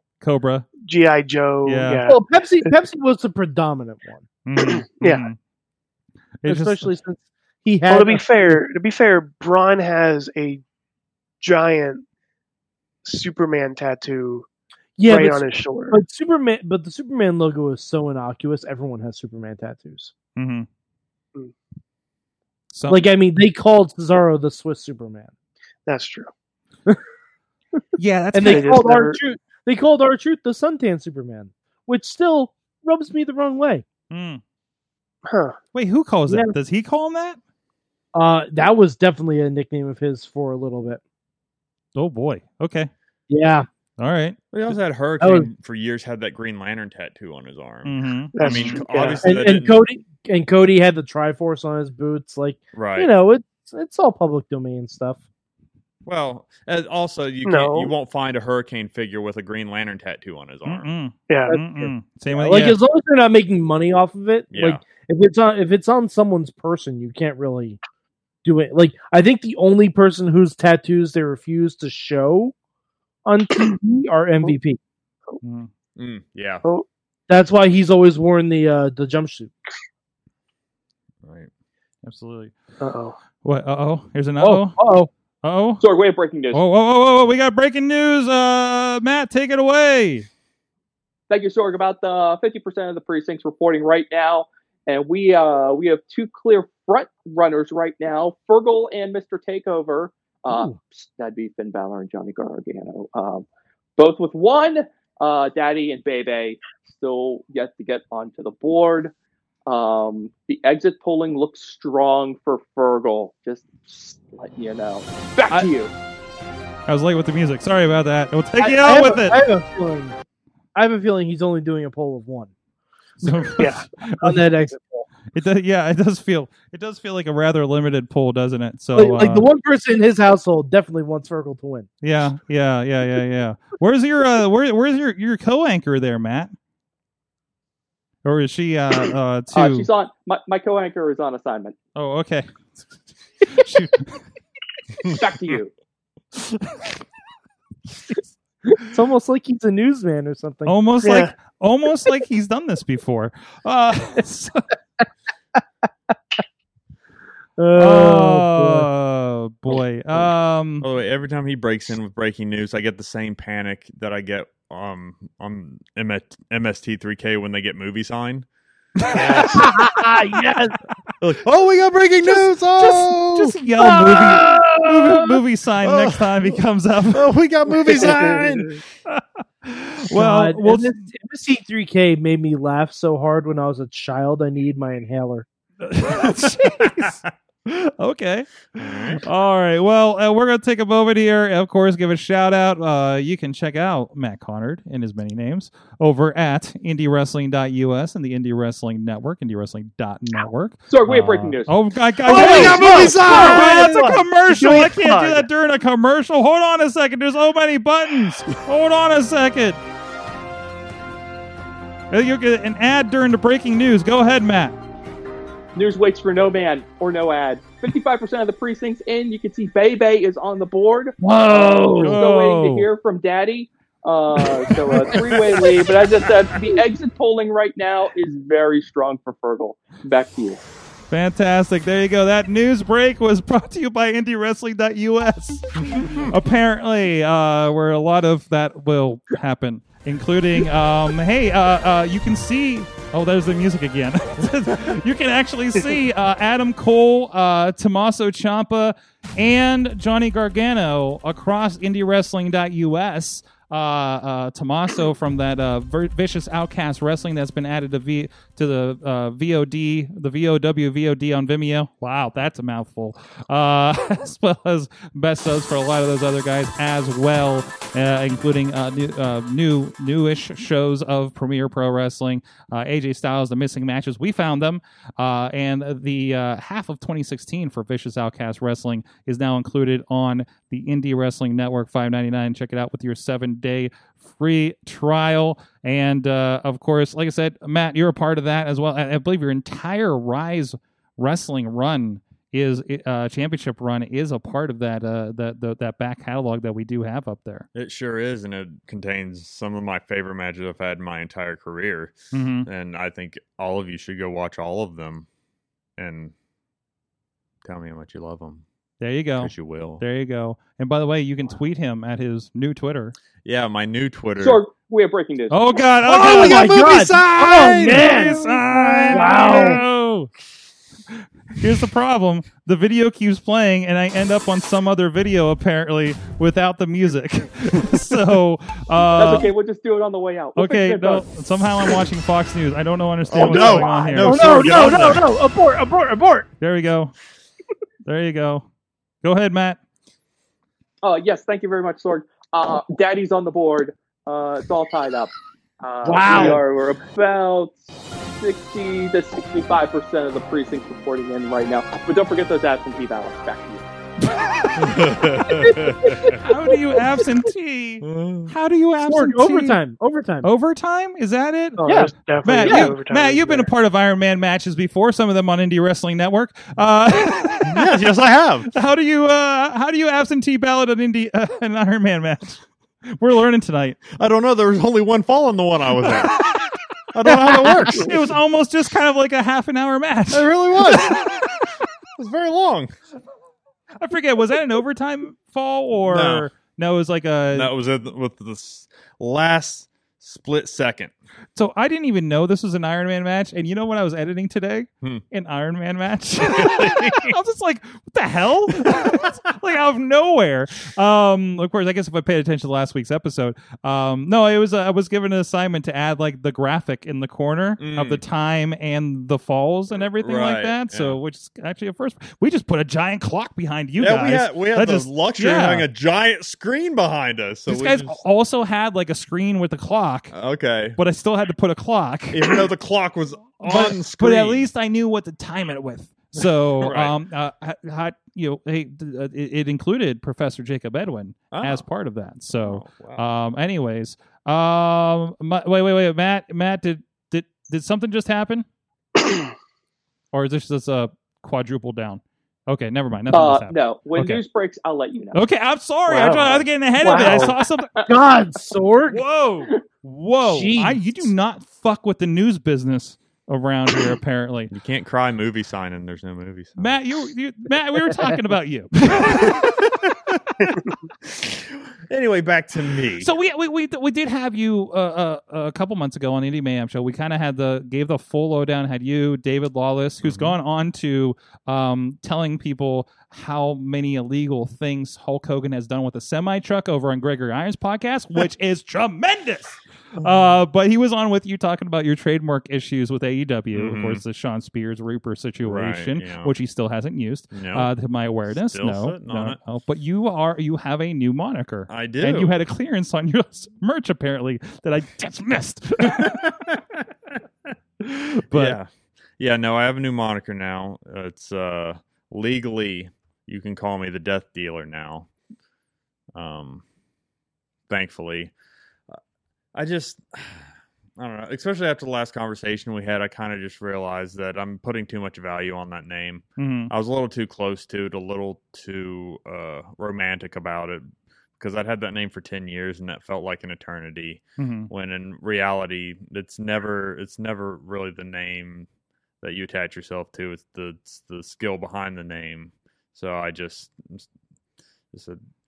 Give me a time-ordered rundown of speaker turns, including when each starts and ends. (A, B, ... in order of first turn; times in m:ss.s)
0:00.2-0:00.7 A
0:00.8-0:02.7 B
0:01.6-0:02.0 A
0:02.0-0:04.3 C
0:04.4-0:05.4 A
0:04.6-0:05.3 B
0:06.4-0:06.9 A
0:06.4-0:08.6 C
0:07.9-0:10.6 B
0:11.4-0:12.0 B
0:13.0-0:14.5 B
0:15.0-0:20.1 C
0:15.1-0:16.0 B
0:20.4-0:20.7 A
0:22.7-0:23.1 A
0:22.9-0:25.3 C
0:25.9-0:26.3 B
0:28.0-0:28.7 A
0:28.3-0:33.8 C
0:28.4-0:29.2 B
0:34.1-0:34.4 A
0:35.2-0:35.6 B
0:35.7-0:37.4 A
0:36.3-0:36.5 C
0:38.1-0:41.0 C
0:41.9-0:42.9 A
0:43.3-0:43.7 C
0:44.0-0:44.4 A
0:44.5-0:49.8 D
0:45.2-0:45.5 C
0:47.8-0:48.8 A
0:48.4-0:49.2 B
0:49.2-0:55.2 C
0:52.7-0:53.1 D
0:56.0-1:00.9 D
0:57.4-0:57.9 B
1:00.6-1:02.8 A
1:01.3-1:01.6 B
1:01.5-1:07.8 C
1:04.5-1:04.8 D
1:08.4-1:12.5 C
1:13.2-1:14.8 C
1:15.4-1:15.7 A
1:16.0-1:16.6 D
1:17.3-1:19.5 C
1:21.2-1:21.5 D
1:22.0-1:22.5 A
1:22.8-1:23.2 B
1:23.4-1:24.8 A
1:24.4-1:25.1 C
1:25.4-1:25.8 A
1:25.8-1:26.6 E
1:26.5-1:30.3 A
1:31.3-1:43.4 E
1:40.5-1:40.8 C
1:44.0-1:49.1 E
1:49.7-1:55.9 E
1:56.9-1:59.4 A
1:58.6-2:00.2 C
2:00.7-2:02.5 C
2:03.2-2:04.5 A
2:03.2-2:05.1 C
2:03.6-2:03.8 B
2:05.3-2:09.5 A
2:08.9-2:11.9 C
2:12.0-2:16.5 A
2:18.2-2:19.9 A
2:19.5-2:21.8 E
2:21.9-2:22.5 A
2:23.4-2:24.2 A
2:25.1-2:25.7 E
2:28.8-2:30.8 C
2:30.6-2:34.6 A
2:31.0-2:31.3 B
2:37.6-2:38.9 C
2:37.8-2:40.9 A
2:40.8-2:48.4 D
2:49.1-2:49.4 A
2:49.1-2:49.8 B
2:49.6-2:50.8 C
2:51.2-2:53.6 D
2:52.8-2:57.2 A
2:53.8-2:55.3 C
2:54.1-2:54.6 D
2:55.8-2:58.8 D
2:58.0-2:58.5 B
2:59.1-3:01.0 A
3:00.1-3:05.4 C
3:05.8-3:29.8 A
3:08.8-3:09.2 D
3:20.9-3:21.7 E
3:22.2-3:24.2 C
3:22.3-3:24.1 D
3:22.4-3:24.0 B
3:24.6-3:25.4 B
3:32.1-3:34.8 A
3:35.8-3:50.6 E
3:41.2-3:42.2 C
3:42.0-3:42.9 A
3:44.9-3:45.6 C
3:51.1-4:57.7 A
3:55.8-3:56.3 D
4:57.7-5:02.1 D
5:02.3-5:02.7 A
5:02.6-5:05.3 D
5:06.0-5:06.3 D
5:07.6-5:08.6 D
5:09.0-5:13.1 A
5:09.4-5:10.0 D
5:13.4-5:14.6 D
5:14.4-5:15.8 E
5:15.5-5:16.7 A
5:16.1-5:19.8 D
5:16.1-5:19.8 C
5:17.6-5:20.3 A
5:21.6-5:29.5 A
5:29.1-5:31.3 E
5:30.6-5:35.2 A
5:33.3-5:35.2 D
5:33.4-5:36.5 C
5:36.6-5:37.1 A
5:38.0-5:38.6 A
5:39.2-5:39.8 A
5:41.0-5:53.8 E
5:46.0-5:46.6 C
5:54.3-5:54.8 A
5:54.8-5:56.4 D
5:55.5-5:56.7 C
5:56.4-5:59.8 A
5:58.0-5:58.5 D
5:59.0-6:00.5 C
6:00.4-6:01.8 A
6:01.8-6:03.7 B
6:01.8-6:02.9 C
6:02.4-6:08.0 A
6:07.6-6:08.7 D
6:08.7-6:14.0 A
6:14.1-6:16.5 D
6:17.1-6:18.2 D
6:17.6-6:21.3 A
6:20.3-6:21.6 D
6:22.2-6:22.9 D
6:24.0-6:27.7 A
6:26.0-6:26.5 D
6:27.5-6:31.1 D
6:31.6-6:55.9 A
6:36.4-6:37.3 D
6:38.9-6:39.2 D
6:47.8-6:48.2 D
6:49.9-6:51.2 D
6:54.0-6:58.2 D
6:57.7-7:00.3 A
7:00.3-7:01.0 D
7:01.0-7:02.7 A
7:02.3-7:04.7 D
7:03.6-7:18.6 A
7:06.8-7:07.1 D
7:11.5-7:11.8 D
7:12.5-7:13.2 D
7:20.3-7:24.4 A
7:23.3-7:25.4 E
7:25.3-7:27.9 A
7:26.1-7:27.6 B
7:28.0-7:29.2 C
7:29.1-7:34.7 A
7:30.4-7:31.1 C
7:34.7-7:36.9 D
7:36.8-7:39.8 A
7:39.2-7:40.1 D
7:41.2-7:43.3 D
7:43.2-8:16.5 A
7:50.2-7:50.6 D
8:00.2-8:00.6 D
8:03.7-8:04.2 D
8:05.6-8:06.5 D
8:07.5-8:07.9 D
8:08.5-8:09.6 D
8:11.9-8:12.5 D
8:16.1-8:16.8 D
8:18.0-8:18.8 A
8:18.5-8:25.3 D
8:26.3-8:26.8 D
8:27.9-8:28.5 D
8:29.7-8:48.9 D
8:36.6-8:36.9 A
8:44.6-8:44.9 A
8:49.4-8:54.3 D
8:55.1-8:55.4 D